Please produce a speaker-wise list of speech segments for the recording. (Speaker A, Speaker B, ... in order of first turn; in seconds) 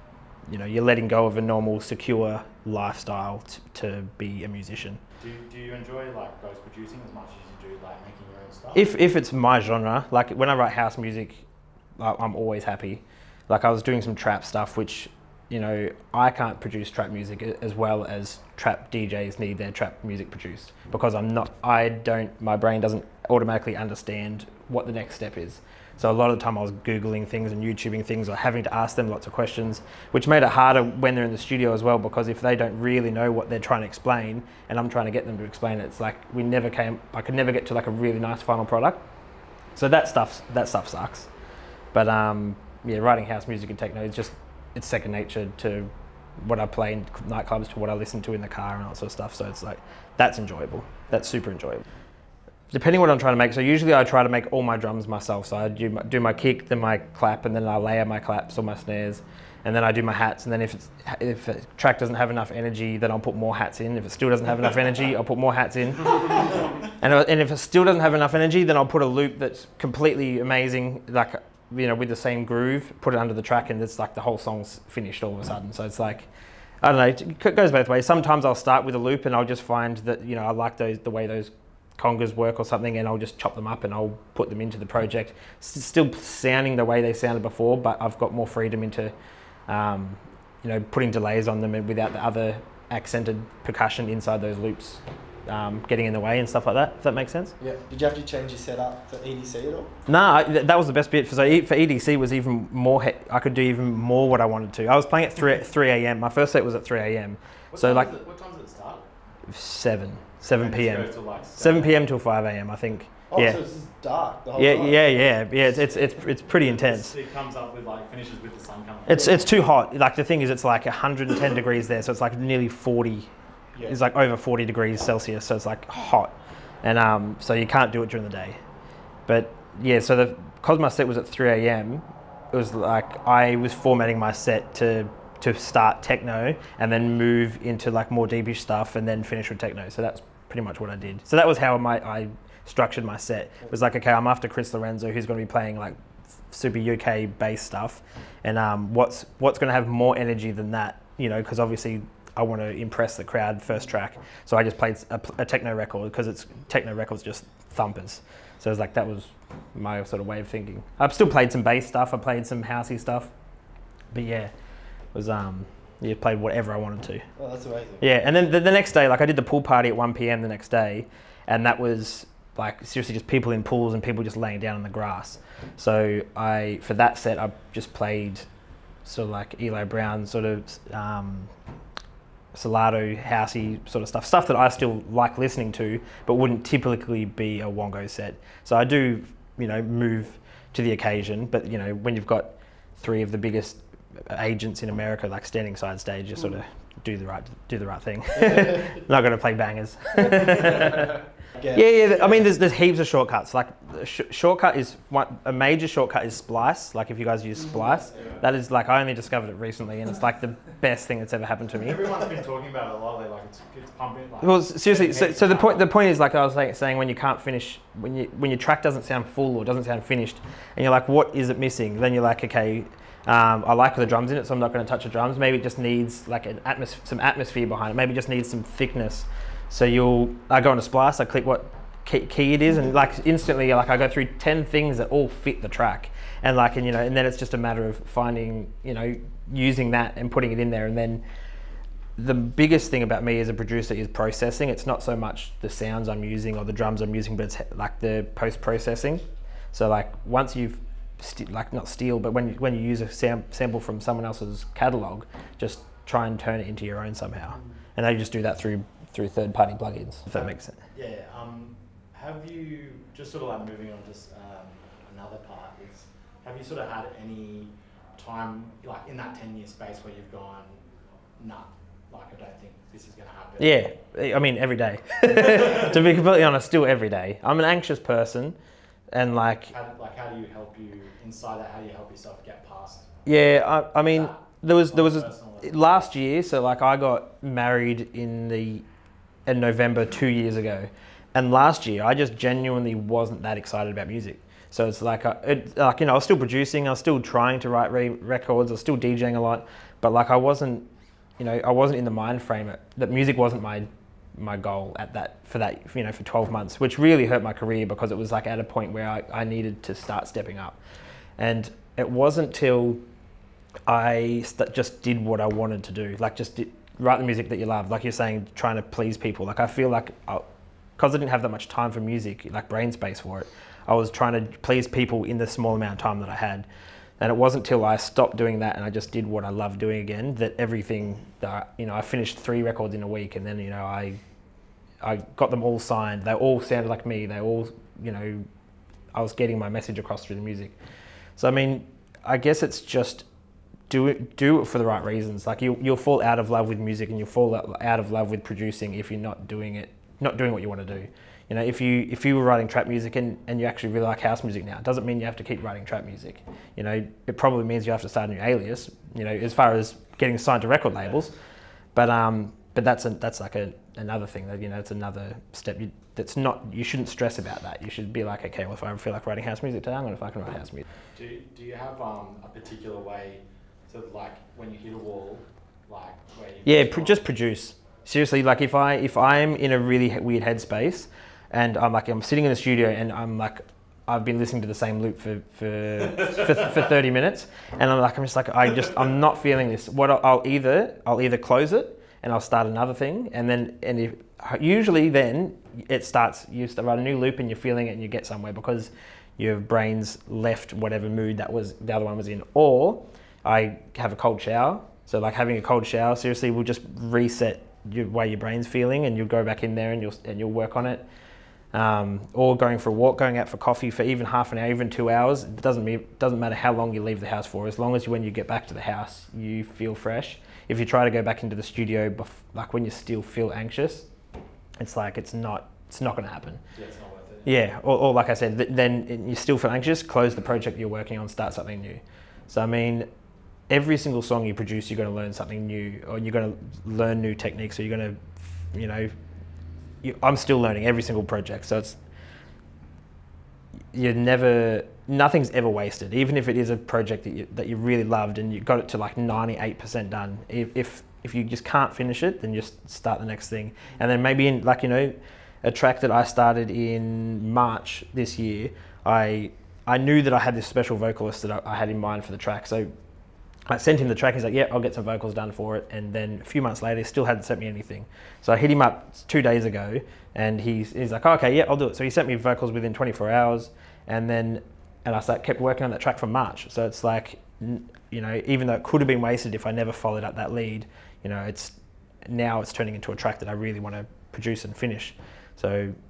Speaker A: 0.5-5.0, 8.8-11.5, 12.0-39.0, 39.8-41.3, 41.9-51.8, 52.7-76.3, 76.8-89.1, 89.7-97.5, 100.1-108.1, 109.5-113.6, 114.6-117.2, 119.1-123.3, 123.9-128.6, 129.3-146.0, 146.5-163.3, 164.1-164.5, 165.1-167.2, 168.0-178.4, 179.1-181.5, 182.6-201.2, 201.7-212.1, 214.4-241.2, 242.2-260.8, 273.6-278.6, 279.1-279.7, 283.3-288.8, 289.5-300.9, 301.4-310.8, 311.4-313.0, 313.9-320.5, 321.0-326.7, 327.2-334.2, 335.0-338.4, 339.1-340.8, 341.4-343.3, 343.9-361.4, 361.9-370.8, 376.6-411.0, 411.7-424.1, 424.8-426.6, 427.4-433.1, 433.7-438.2, 438.7-439.1, 440.0-441.9, 443.9-462.9, 463.7-485.9
Speaker B: 5.2-8.9, 107.7-109.1, 110.5-112.1, 115.7-119.5, 123.8-124.0, 211.8-215.8, 260.3-270.8, 271.4-273.9, 279.7-283.1, 284.0-285.8, 371.1-377.2, 426.7-427.5
Speaker C: 97.6-99.9, 113.3-115.4, 167.4-168.1, 201.6-202.5, 207.9-208.4